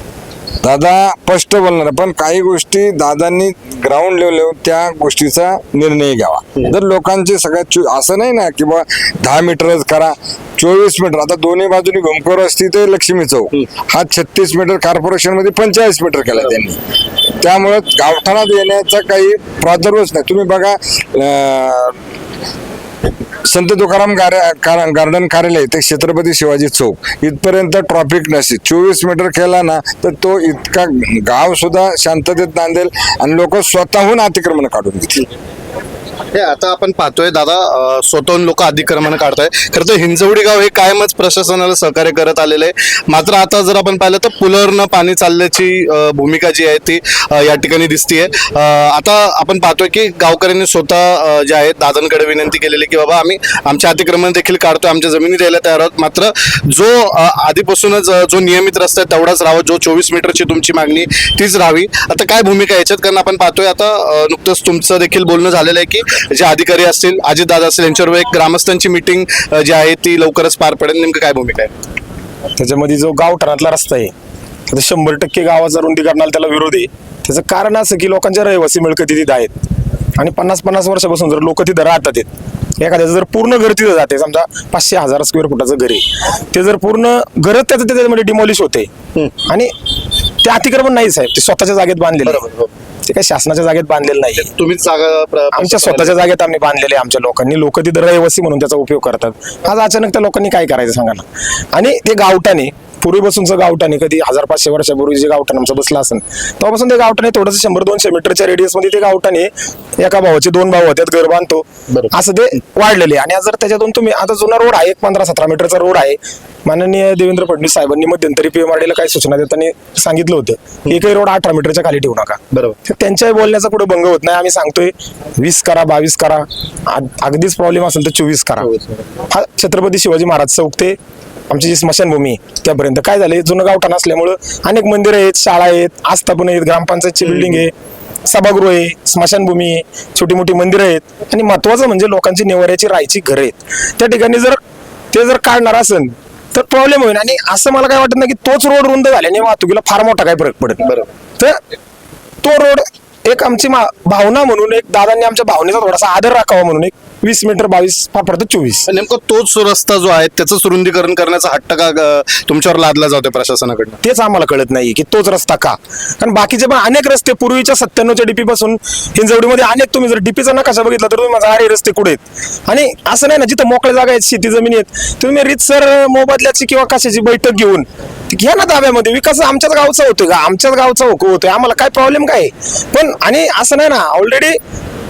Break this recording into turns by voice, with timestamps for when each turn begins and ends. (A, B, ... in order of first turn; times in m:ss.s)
0:00.6-0:16.8 A
0:17.4-0:22.0 A
0:23.4-0:35.2 A
0:36.3-1:11.7 B
1:12.6-1:14.1 C
1:14.7-1:19.5 C
1:20.2-1:22.3 C
1:22.8-1:28.9 C
1:30.4-1:32.4 C
1:32.2-1:32.7 B
1:33.0-1:34.5 C
1:34.5-1:36.2 B
1:35.5-2:08.7 C
2:08.6-2:09.0 B
2:09.3-2:11.0 C
2:11.5-2:17.7 C
2:17.2-2:17.6 B
2:18.3-2:24.6 C
2:25.1-2:30.8 C
2:30.8-2:31.1 B
2:32.4-2:38.9 C
2:38.9-2:44.0 B
2:44.0-3:04.6 C